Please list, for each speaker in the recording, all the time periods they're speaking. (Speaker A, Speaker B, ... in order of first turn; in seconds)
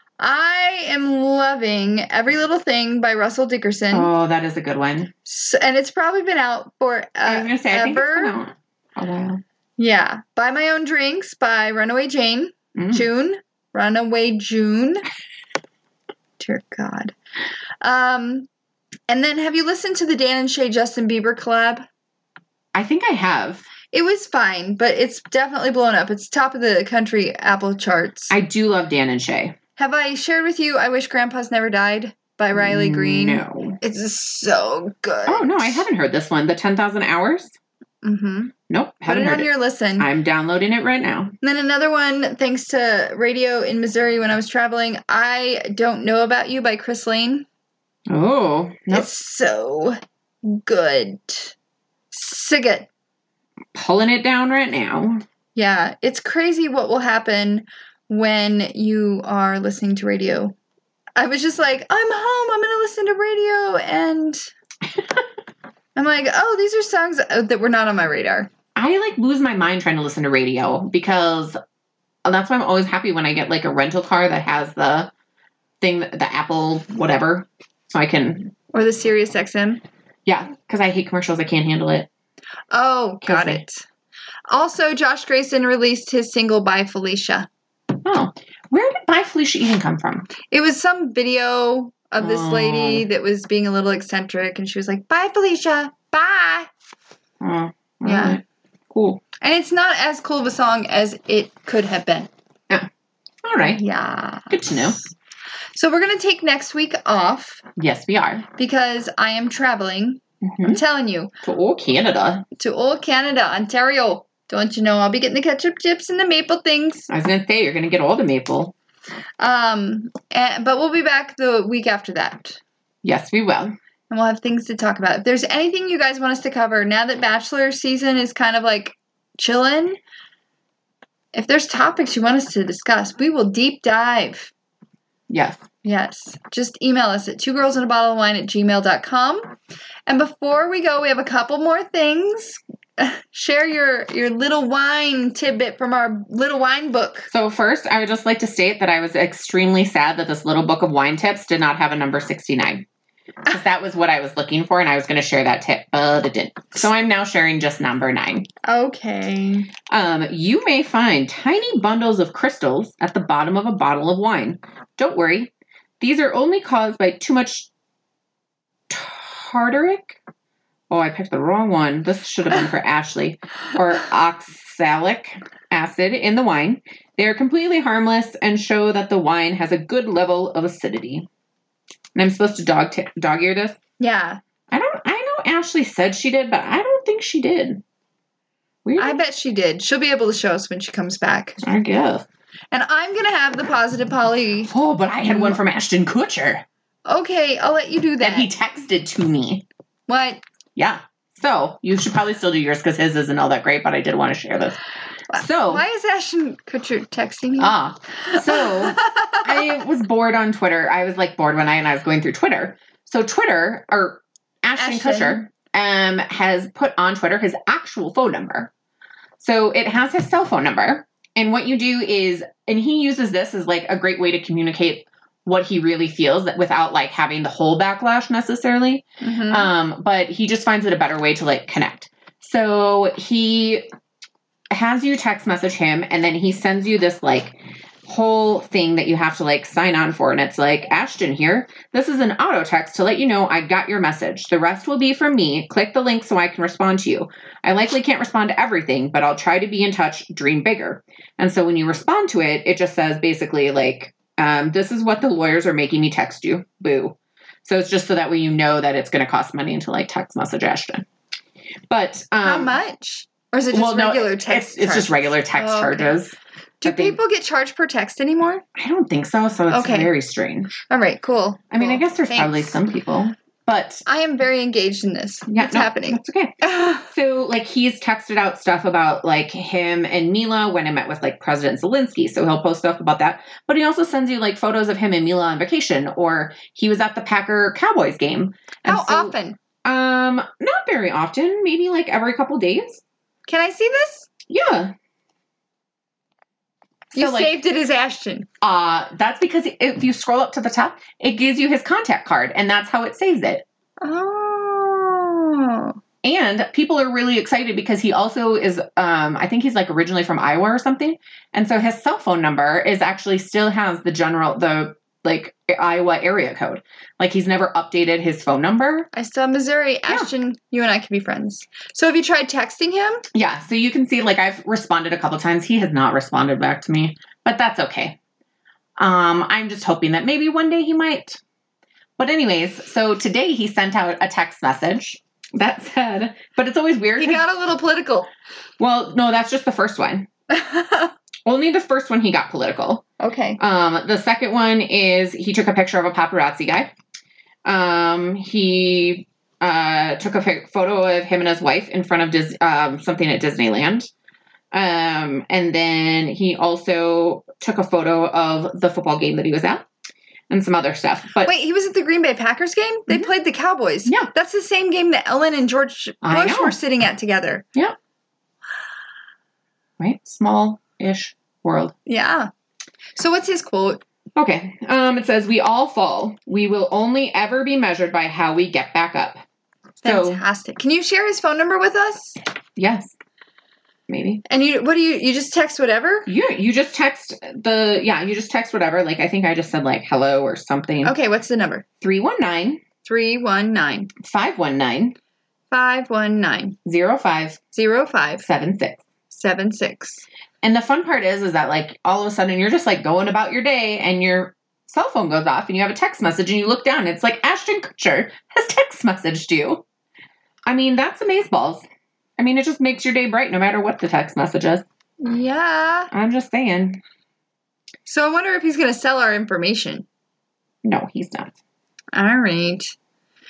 Speaker A: 0.2-4.1, 5.2-8.4, 9.8-15.0, 16.4-17.1, 17.8-18.5, 19.1-21.9, 23.9-28.3, 29.8-35.8, 38.0-38.5, 39.0-40.1, 41.4-47.5, 48.9-51.5, 52.1-52.9, 55.5-60.5, 61.2-64.5, 66.0-68.5, 78.7-79.8, 82.7-83.8, 84.5-87.5, 90.5-96.7, 98.0-98.4, 99.4-102.3, 103.7-105.0, 105.7-107.6, 108.6-111.3, 112.6-117.1, 119.4-122.6, 124.1-130.0, 131.3-134.5, 135.8-139.6, 140.1-147.3, 158.6-159.7, 184.0-184.4, 189.0-191.6, 192.7-194.7, 195.2-195.6, 197.1-198.5, 200.1-200.4, 205.3-207.7, 208.3-209.6, 214.8-215.4, 229.2-229.7, 262.4-266.2, 266.8-268.6, 269.7-270.1, 270.9-272.8, 274.1-277.1, 288.9-289.6, 293.5-294.3, 297.1-298.5, 304.0-306.0, 319.1-323.2, 337.2-338.3, 340.5-341.1, 343.2-343.6, 361.4-367.6, 372.1-372.5, 373.1-374.0, 380.0-382.4, 384.5-386.3, 391.0-391.8, 393.0-394.1, 395.7-396.8, 397.7-398.4, 399.3-400.2, 415.2-416.1, 418.1-420.1, 422.1-422.9
Speaker B: 3.9-5.1, 7.2-9.4, 12.8-13.1, 22.7-23.7, 28.3-29.6, 32.5-33.8, 35.2-37.5, 38.7-41.3, 48.1-49.1, 53.7-55.2, 68.8-71.6, 72.2-75.1, 75.8-78.5, 80.2-82.1, 83.2-83.6, 88.0-90.3, 92.2-93.0, 97.4-99.2, 103.4-103.8, 104.5-105.0, 107.8-108.5, 110.5-110.8, 111.4-112.4, 117.1-118.7, 123.0-123.7, 135.3-135.6, 147.3-152.8, 153.5-158.5, 159.9-167.7, 168.9-170.2, 170.9-181.3, 182.1-183.8, 184.7-187.8, 188.8-189.2, 191.6-192.2, 194.7-196.6, 198.2-199.6, 200.8-204.8, 205.3-205.8, 207.6-218.7, 219.4-233.9, 234.7-261.1, 261.9-262.8, 263.7-267.2, 268.7-270.7, 271.7-274.0, 275.5-289.3, 289.8-293.0, 294.5-294.9, 297.1-297.6, 298.6-303.6, 306.2-319.1, 323.3-328.2, 329.0-331.4, 332.2-337.4, 338.8-340.3, 341.4-343.0, 343.6-346.9, 347.6-354.1, 354.7-359.9, 360.5-361.5, 364.0-364.3, 366.2-366.8, 370.0-371.9, 374.3-379.4, 380.0-380.4, 382.8-383.1, 384.1-384.4, 386.2-391.1, 392.0-392.8, 394.2-395.1, 396.9-397.6, 398.4-399.0, 400.6-409.8, 410.6-411.8, 412.4-414.8, 416.1-417.0, 420.8-421.5